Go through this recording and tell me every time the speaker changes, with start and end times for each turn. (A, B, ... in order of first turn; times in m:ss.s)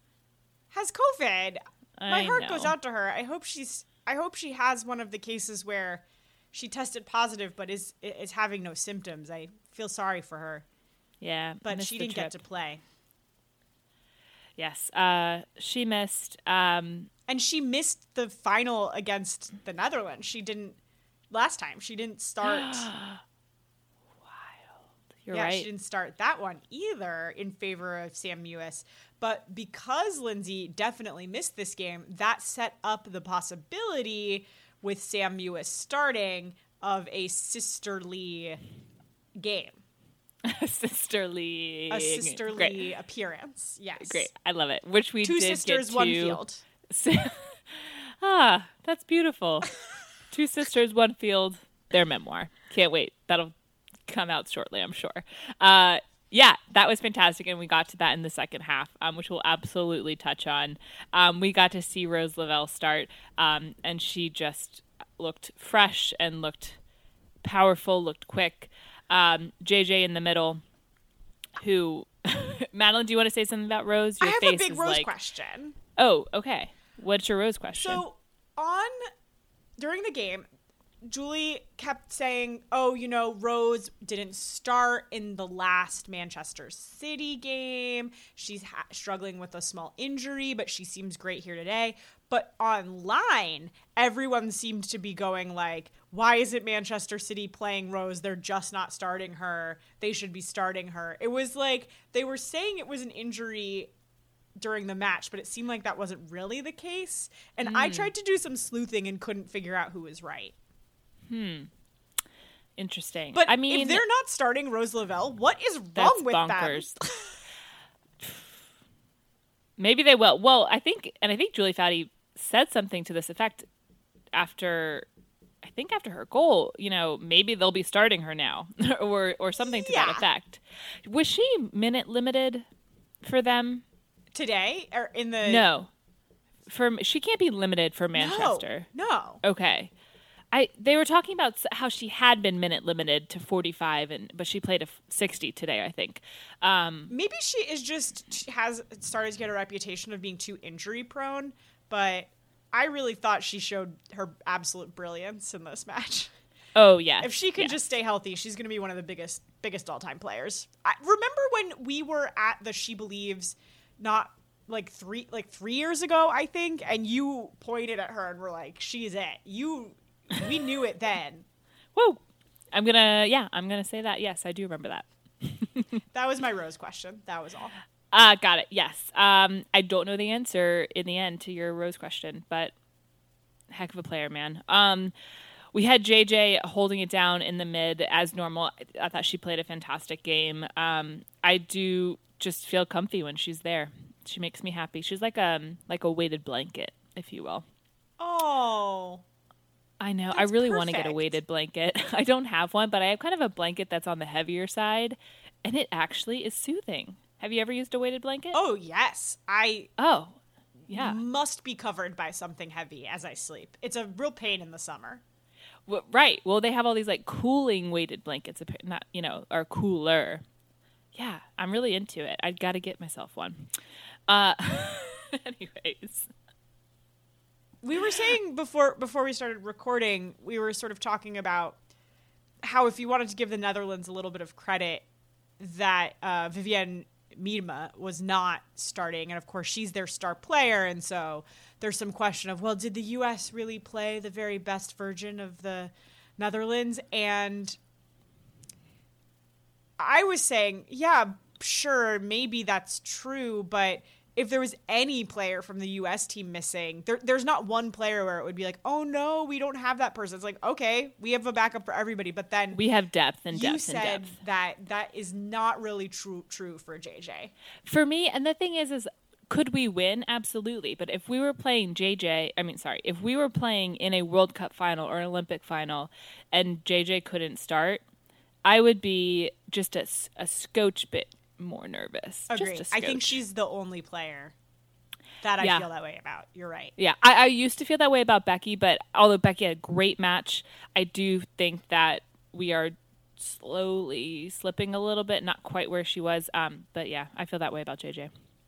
0:00.7-0:10.7 A
0:02.0-0:02.8 B
0:11.2-0:12.4 B
0:11.6-0:12.8 A
0:14.6-0:17.1 B
0:17.3-0:20.8 A
0:21.3-0:22.9 A
0:22.4-0:23.2 B
0:24.3-0:25.7 B
0:25.3-0:38.6 A
0:39.4-0:39.8 A
0:40.4-0:42.8 B
0:41.9-0:44.3 A
0:44.0-0:49.7 B
0:45.2-0:46.6 A
0:50.3-0:53.5 B
0:54.1-1:06.8 B
1:07.4-1:10.6 B
1:11.6-1:15.1 B
1:14.2-1:15.8 A
1:16.0-1:18.0 B
1:17.8-1:19.1 A
1:19.8-1:20.5 A
1:21.1-1:43.9 A
1:44.6-1:50.6 A
1:47.6-1:48.1 B
1:51.3-1:51.7 B
1:52.8-1:54.0 B
1:53.3-1:57.4 A
1:56.0-1:57.0 B
1:58.2-1:58.5 B
1:59.8-2:03.7 B
2:04.3-2:05.1 B
2:05.6-2:12.7 B
2:09.6-2:10.2 A
2:13.2-2:13.8 B
2:14.3-2:15.6 A
2:15.4-2:15.9 B
2:16.7-2:18.9 B
2:18.2-2:19.4 A
2:19.4-2:19.9 B
2:20.5-2:27.1 B
2:27.1-2:36.3 A
2:36.8-2:37.8 B
2:37.2-2:51.5 A
2:52.0-2:52.2 B
2:52.7-2:56.0 B
2:56.1-2:57.8 A
2:58.1-3:02.7 B
3:03.7-3:05.1 B
3:05.7-3:17.7 B
3:18.2-3:19.2 A
3:20.0-3:28.6 B
3:20.3-3:21.4 A
3:28.5-3:29.9 A
3:30.0-3:31.2 B
3:30.9-3:35.2 A
3:35.9-3:40.4 B
3:41.2-3:43.7 B
3:44.3-3:46.3 B
3:47.8-3:51.8 A
3:52.6-3:55.1 A
3:55.6-4:07.8 A
4:10.0-4:22.8 A
4:22.7-4:24.4 B
4:23.5-4:27.5 A
4:27.8-4:38.0 B
4:38.6-4:43.4 B
4:42.5-4:44.6 A
4:45.4-4:46.9 A
4:45.6-4:45.9 B
4:47.0-4:58.3 B